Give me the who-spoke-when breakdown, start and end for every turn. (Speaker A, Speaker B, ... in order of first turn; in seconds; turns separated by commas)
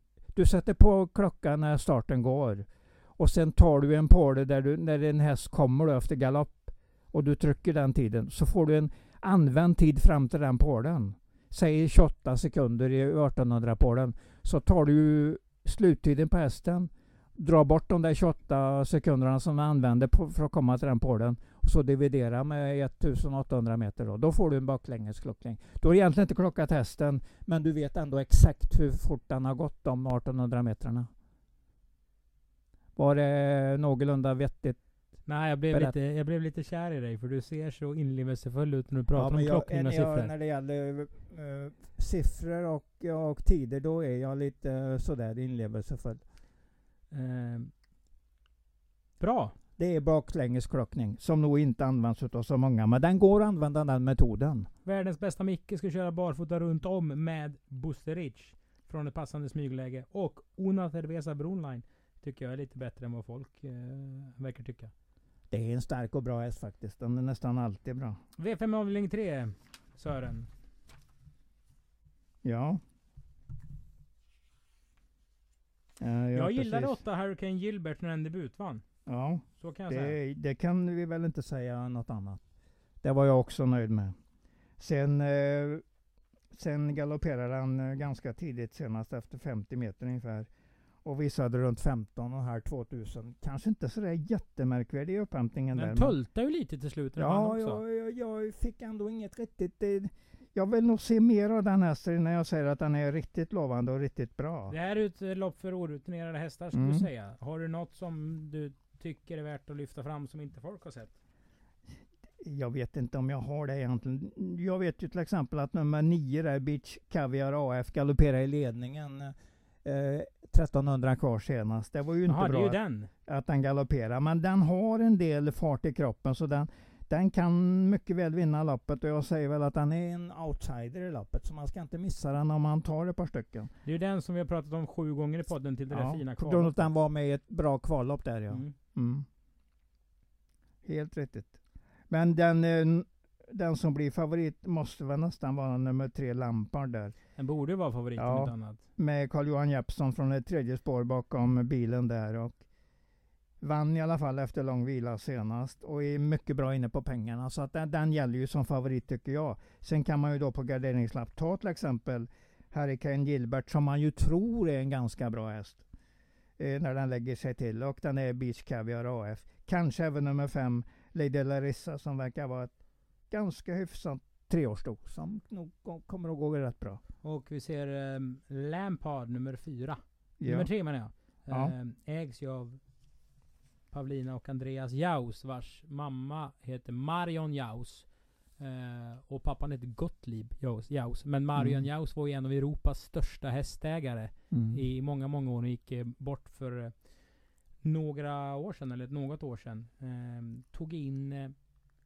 Speaker A: 0.3-2.7, Speaker A: 3.2-31.1, Speaker A: 33.0-34.8, Speaker B: 35.3-40.3, Speaker A: 39.1-46.2, Speaker B: 47.1-47.7, Speaker B: 49.2-49.5, Speaker A: 49.8-54.7, Speaker B: 54.8-64.9, Speaker A: 65.5-68.2, Speaker B: 68.4-70.5, Speaker A: 72.4-72.8, Speaker A: 76.0-77.0, Speaker B: 76.3-78.8, Speaker A: 79.1-82.4, Speaker B: 79.6-80.2, Speaker A: 83.0-84.1, Speaker A: 84.8-85.8, Speaker A: 86.5-90.5, Speaker A: 91.0-96.1, Speaker B: 95.7-97.8, Speaker A: 97.2-104.7, Speaker B: 104.7-111.1, Speaker A: 106.7-107.1, Speaker A: 112.4-133.7, Speaker B: 122.3-123.1, Speaker B: 133.8-136.9, Speaker A: 135.9-139.3, Speaker B: 138.5-138.8, Speaker A: 140.8-141.6, Speaker A: 142.1-147.2, Speaker B: 147.4-148.8, Speaker A: 148.2-152.6, Speaker A: 153.6-165.8, Speaker A: 166.6-172.7, Speaker A: 173.3-177.0, Speaker B: 177.2-182.8, Speaker A: 180.4-180.7, Speaker B: 183.9-197.3, Speaker A: 191.6-191.8, Speaker A: 194.5-194.8, Speaker B: 197.8-201.5